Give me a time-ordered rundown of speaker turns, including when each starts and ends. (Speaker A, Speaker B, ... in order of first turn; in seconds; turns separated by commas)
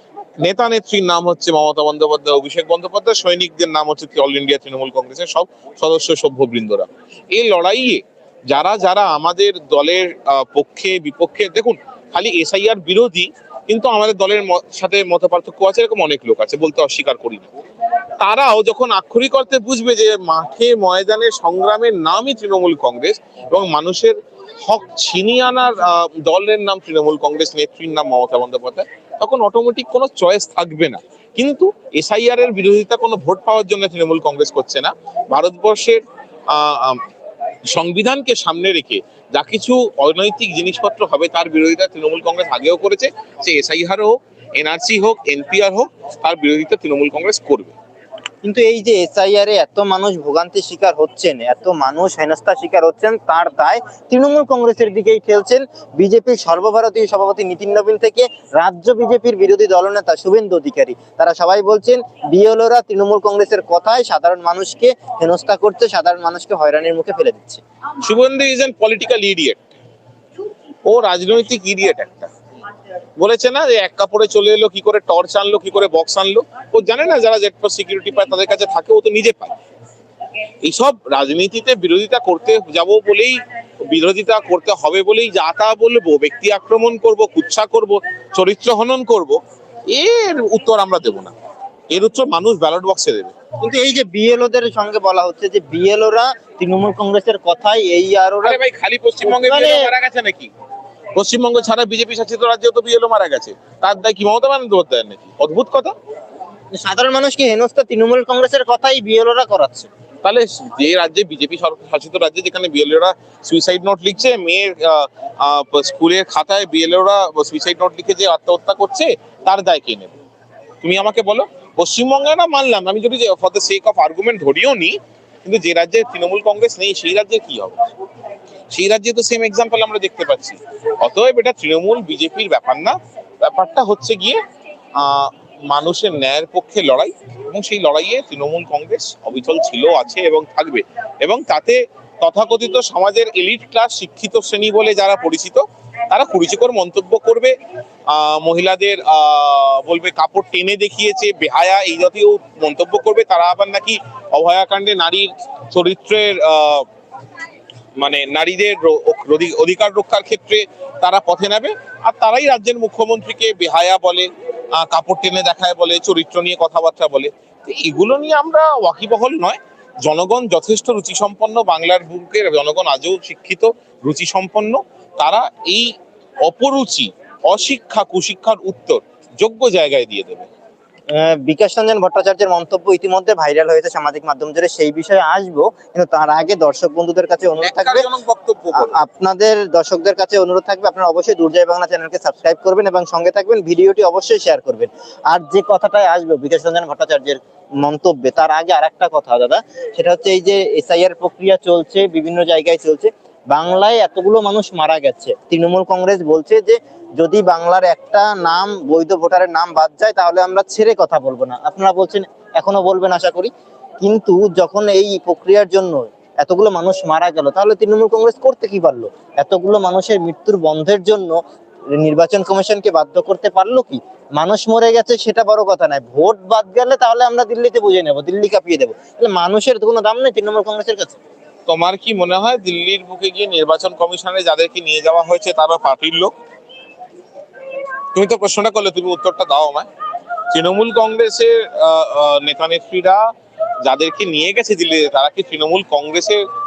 Speaker A: 0.4-17.5, Speaker A: 18.2-37.0, Speaker A: 37.7-47.8, Speaker B: 48.4-67.6, Speaker A: 68.0-69.6, Speaker A: 70.8-72.3, Speaker A: 73.2-79.6, Speaker A: 80.6-89.4, Speaker A: 89.9-91.3, Speaker A: 91.9-93.3, Speaker B: 93.6-98.6, Speaker A: 98.4-100.5, Speaker B: 99.2-99.9, Speaker A: 101.2-105.9, Speaker B: 106.8-109.9, Speaker A: 110.2-120.2, Speaker A: 120.8-127.8, Speaker A: 128.7-134.4, Speaker A: 135.0-147.5, Speaker A: 148.1-156.9, Speaker A: 158.0-175.9, Speaker A: 176.4-180.5, Speaker B: 181.1-188.1, Speaker A: 187.6-189.0, Speaker B: 188.8-221.4, Speaker B: 222.0-231.2, Speaker A: 231.7-236.3, Speaker A: 238.1-239.9, Speaker A: 240.5-243.2, Speaker A: 243.8-246.4